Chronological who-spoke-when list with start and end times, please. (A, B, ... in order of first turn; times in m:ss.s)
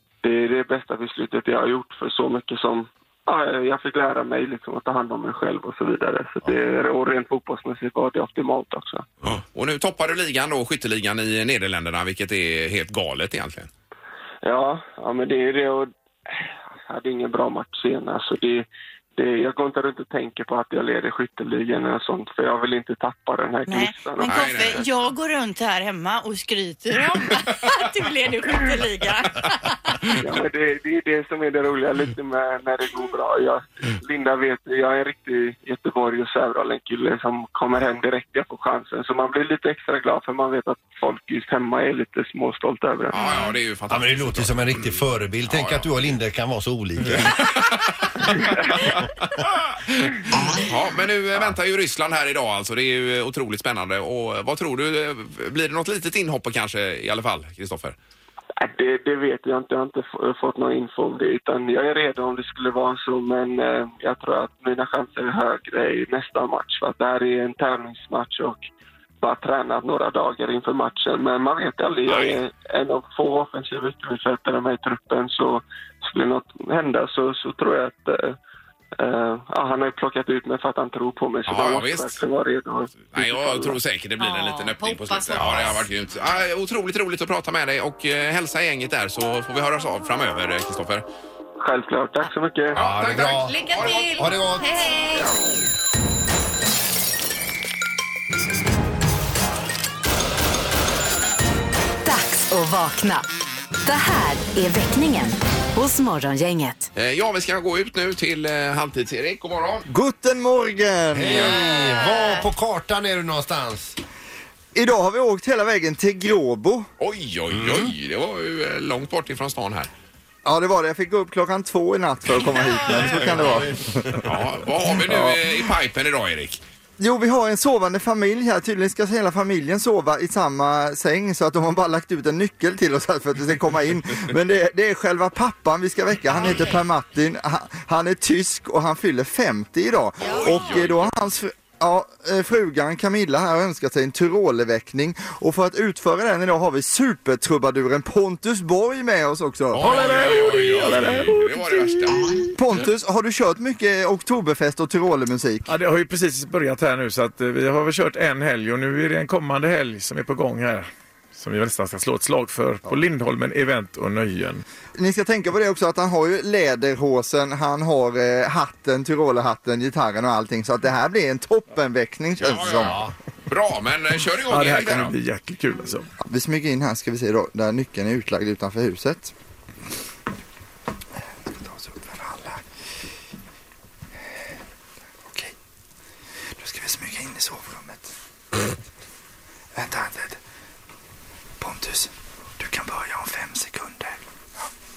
0:00.2-0:09.1 A
0:09.3-0:13.7 B
0:14.4-0:24.5 A
0:23.7-0:30.0 C
0:24.2-0:24.8 B
0:30.2-0:43.2 A
0:43.1-0:46.1 B
0:43.9-0:47.4 D
0:47.0-0:58.0 B
0:58.6-1:08.6 A
1:09.2-1:18.4 A
1:12.1-1:12.4 B
1:19.0-1:23.8 A
1:21.5-1:22.2 B
1:23.1-1:31.0 B
1:24.2-1:25.8 C
1:25.4-1:25.7 D
1:31.6-1:32.8 A
1:32.7-1:34.3 B
1:32.7-1:34.7 D
1:33.1-1:35.4 C
1:42.0-1:43.2 E
1:43.8-1:46.9 E
1:46.9-1:49.8 B
1:49.9-1:51.6 F
1:51.1-1:54.0 D
1:51.3-1:52.5 C
1:54.7-1:56.8 F
1:57.0-1:59.9 B
1:57.5-1:57.9 D
2:00.4-2:04.3 F
2:03.3-2:04.1 D
2:04.2-2:06.6 B
2:05.0-2:05.4 F
2:07.0-2:30.6 F
2:20.2-2:20.6 C
2:20.3-2:21.2 B
2:29.7-2:32.4 B
2:29.8-2:31.4 G
2:32.6-2:35.7 F
2:35.7-2:44.6 G
2:45.0-2:53.0 F
2:52.4-2:55.1 B
2:52.7-2:53.1 D
2:54.5-2:56.1 G
2:56.2-2:59.3 F